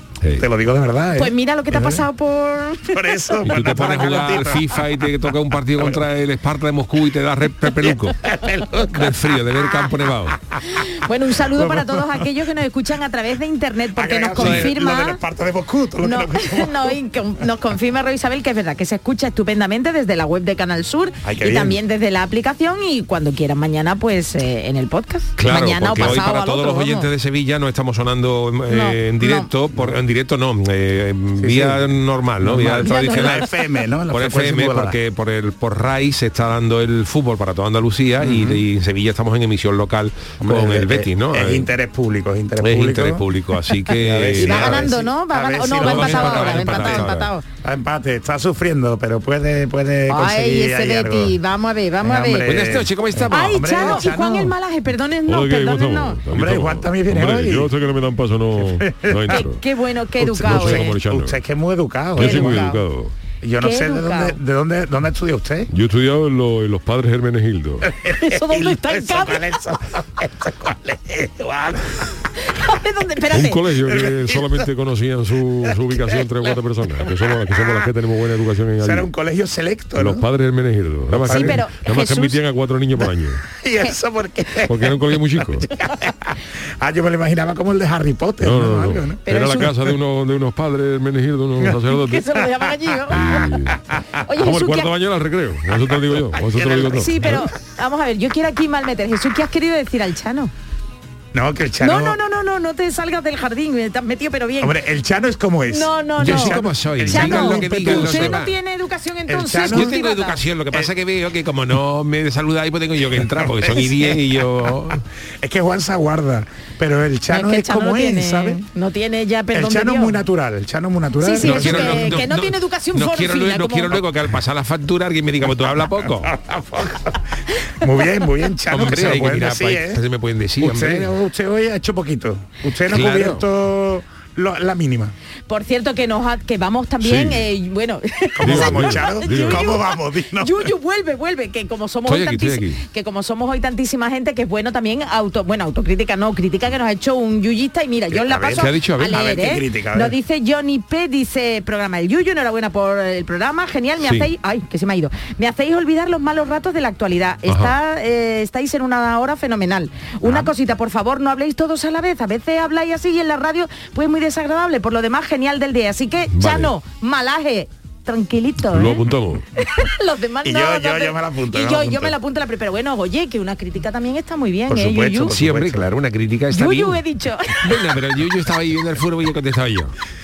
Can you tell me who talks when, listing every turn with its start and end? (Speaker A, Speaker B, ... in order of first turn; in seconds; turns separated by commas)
Speaker A: 0.2-0.5, Speaker B: 0.4-2.1, Speaker C: 1.2-3.6, Speaker B: 2.9-4.8, Speaker A: 3.4-8.2, Speaker B: 5.8-6.0, Speaker B: 8.2-9.2, Speaker A: 8.9-10.4, Speaker C: 10.6-15.2, Speaker B: 11.5-12.2, Speaker B: 13.9-17.0, Speaker A: 14.4-14.7, Speaker C: 16.0-27.1, Speaker B: 21.2-21.8, Speaker A: 25.4-33.5, Speaker C: 28.7-29.5, Speaker B: 31.4-35.0, Speaker C: 32.8-33.5, Speaker A: 34.1-41.7, Speaker B: 38.2-38.6, Speaker B: 40.4-43.2, Speaker A: 42.6-44.9, Speaker B: 43.9-51.4, Speaker C: 44.3-47.4, Speaker A: 45.7-47.3, Speaker C: 50.1-52.6, Speaker B: 52.0-54.5, Speaker A: 52.4-54.1, Speaker C: 53.3-56.2, Speaker A: 55.3-59.6, Speaker B: 56.3-57.8, Speaker B: 58.6-59.4, Speaker C: 59.3-61.0, Speaker A: 60.2-61.4, Speaker B: 60.4-62.7, Speaker A: 62.2-63.1, Speaker C: 62.2-62.8, Speaker B: 63.4-65.7, Speaker C: 63.6-64.4, Speaker A: 65.7-67.9, Speaker B: 67.8-72.2, Speaker C: 68.1-69.5, Speaker C: 72.4-73.7, Speaker A: 73.3-79.1, Speaker B: 73.8-74.7, Speaker B: 77.4-77.8, Speaker B: 78.8-80.3, Speaker A: 80.0-83.5, Speaker B: 81.2-81.6, Speaker C: 81.2-82.4, Speaker B: 83.5-89.2, Speaker A: 84.7-85.7, Speaker A: 88.4-92.4, Speaker C: 89.2-89.8, Speaker C: 91.9-93.7, Speaker A: 93.1-97.5, Speaker C: 94.2-94.9, Speaker B: 95.8-97.4, Speaker C: 96.9-100.5, Speaker B: 101.3-102.2, Speaker C: 101.8-104.8, Speaker B: 104.6-108.4, Speaker C: 105.7-110.4, Speaker A: 106.2-108.5, Speaker B: 109.3-110.0, Speaker A: 109.6-115.0, Speaker B: 113.4-114.3, Speaker B: 115.4-118.6, Speaker C: 117.3-120.2, Speaker B: 119.5-122.3, Speaker C: 121.2-124.0, Speaker A: 121.4-126.3, Speaker B: 125.5-127.2, Speaker B: 127.8-130.0, Speaker A: 128.7-131.1, Speaker B: 130.6-135.1, Speaker A: 132.9-133.4, Speaker C: 135.5-169.0, Speaker A: 137.0-137.5, Speaker B: 138.4-140.7, Speaker A: 138.4-139.8, Speaker A: 142.1-142.8, Speaker B: 148.1-150.2, Speaker A: 148.6-149.2, Speaker A: 154.0-154.3, Speaker A: 157.5-157.7, Speaker A: 160.2-160.5, Speaker A: 166.3-166.7, Speaker A: 168.6-169.4, Speaker C: 169.6-175.4, Speaker B: 170.4-172.2, Speaker B: 174.7-175.9, Speaker A: 175.2-177.0, Speaker C: 176.5-177.9, Speaker A: 177.6-179.9